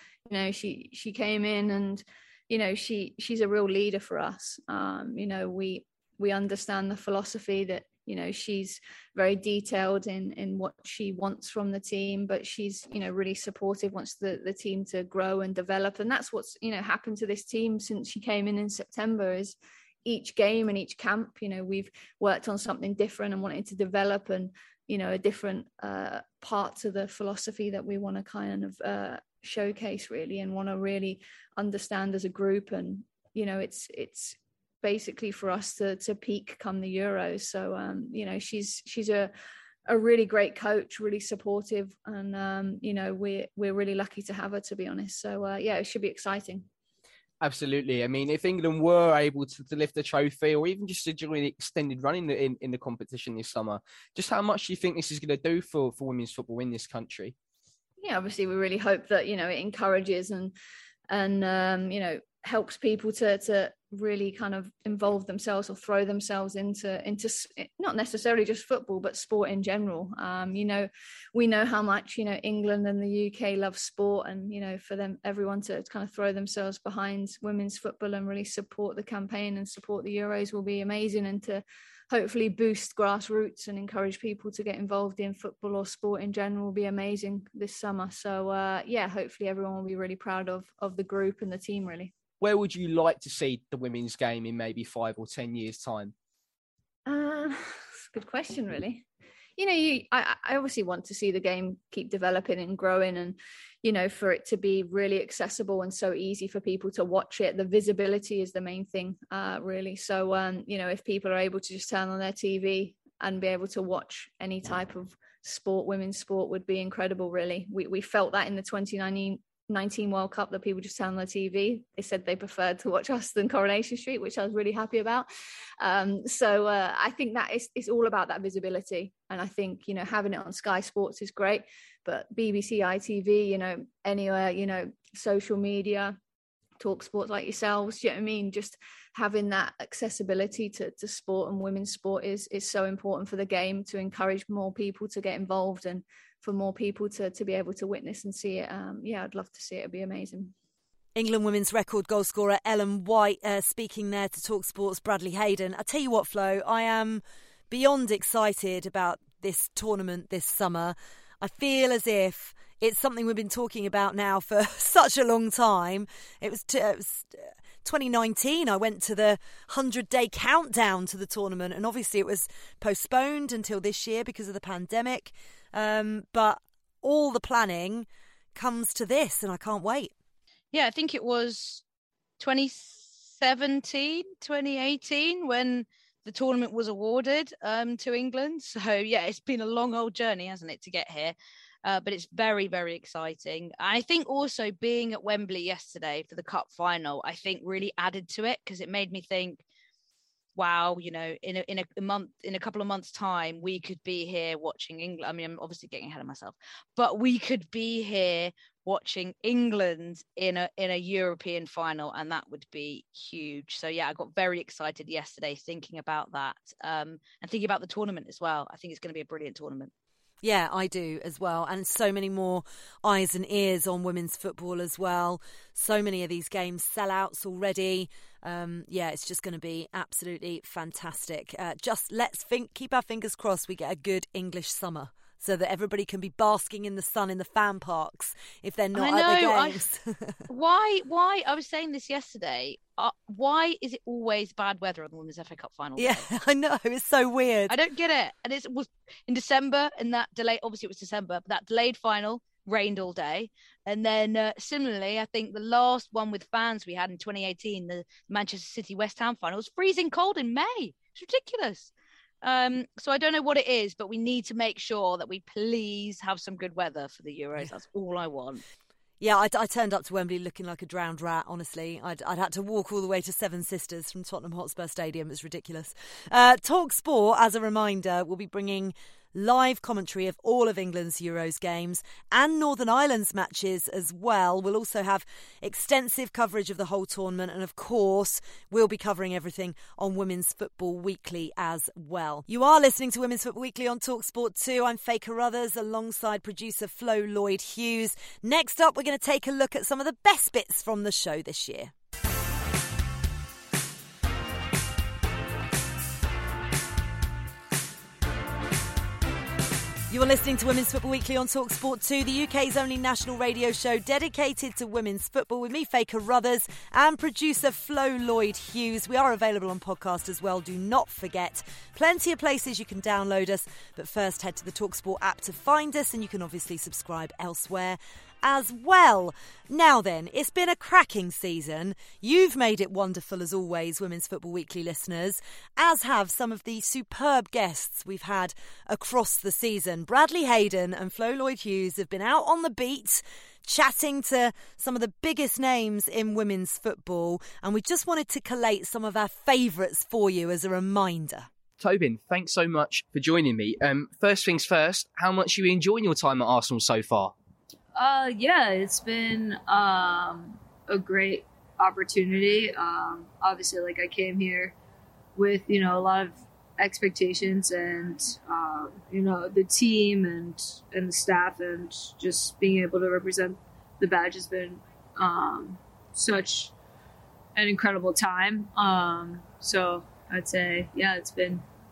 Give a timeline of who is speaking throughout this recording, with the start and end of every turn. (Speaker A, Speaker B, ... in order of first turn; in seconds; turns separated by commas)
Speaker A: 0.3-39.3, Speaker A: 39.9-46.7, Speaker B: 47.4-57.3, Speaker A: 58.0-60.5, Speaker A: 61.1-92.1, Speaker B: 92.4-96.1, Speaker A: 97.0-99.0, Speaker A: 99.6-125.3, Speaker A: 125.8-136.2, Speaker A: 136.8-150.5, Speaker C: 151.1-180.1, Speaker D: 180.7-181.8, Speaker D: 182.4-199.6, Speaker D: 200.6-219.9, Speaker C: 220.4-240.4, Speaker D: 238.9-239.8, Speaker D: 240.5-246.3, Speaker C: 246.0-247.8, Speaker D: 247.7-261.9, Speaker D: 262.4-268.6, Speaker C: 269.2-301.9, Speaker C: 310.1-351.5, Speaker B: 351.8-357.3, Speaker E: 357.9-364.7, Speaker E: 365.4-376.7, Speaker E: 377.5-381.6